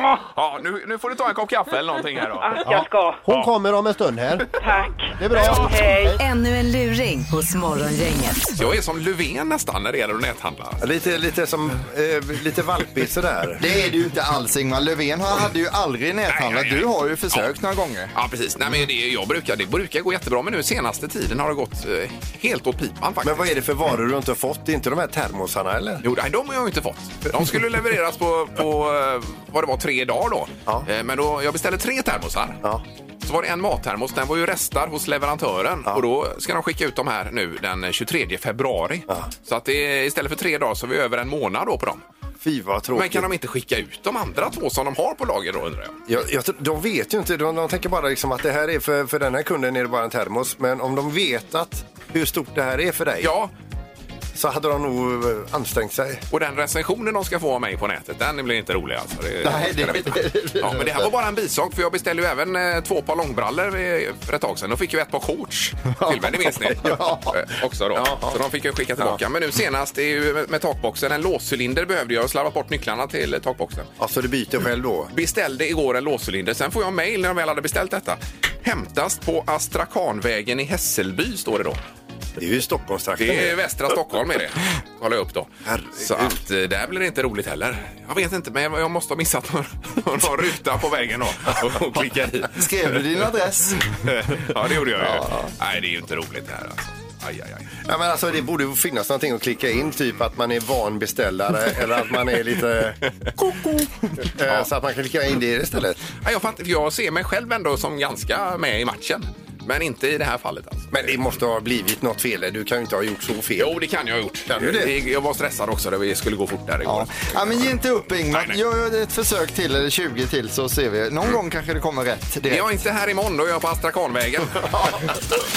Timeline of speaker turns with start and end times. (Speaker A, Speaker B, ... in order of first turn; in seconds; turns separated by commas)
Speaker A: 0.3-2.6, Speaker B: 2.4-3.2, Speaker C: 2.6-4.5, Speaker B: 4.6-6.2, Speaker C: 5.2-6.2, Speaker A: 5.3-5.8, Speaker D: 6.2-8.5, Speaker A: 8.6-10.8, Speaker E: 10.8-13.6, Speaker F: 13.6-18.1, Speaker A: 16.3-17.5, Speaker A: 18.1-23.5, Speaker E: 23.2-26.0, Speaker A: 26.0-32.6, Speaker A: 33.2-42.0, Speaker E: 42.4-43.3, Speaker A: 42.9-46.0, Speaker E: 46.1-53.3, Speaker A: 53.2-53.5, Speaker E: 54.3-56.2, Speaker A: 56.3-73.9, Speaker F: 59.4-61.0, Speaker F: 66.0-67.3, Speaker E: 67.9-68.4, Speaker E: 74.0-75.1, Speaker A: 75.1-81.8, Speaker E: 82.4-83.6, Speaker A: 83.2-92.7, Speaker E: 85.6-86.4, Speaker F: 92.5-93.8, Speaker A: 94.1-97.8, Speaker E: 97.8-103.0, Speaker E: 104.3-106.0, Speaker A: 106.2-111.1, Speaker E: 110.9-113.8, Speaker A: 113.6-117.7, Speaker E: 114.5-115.0, Speaker F: 116.8-122.7, Speaker A: 118.3-118.6, Speaker A: 122.5-125.1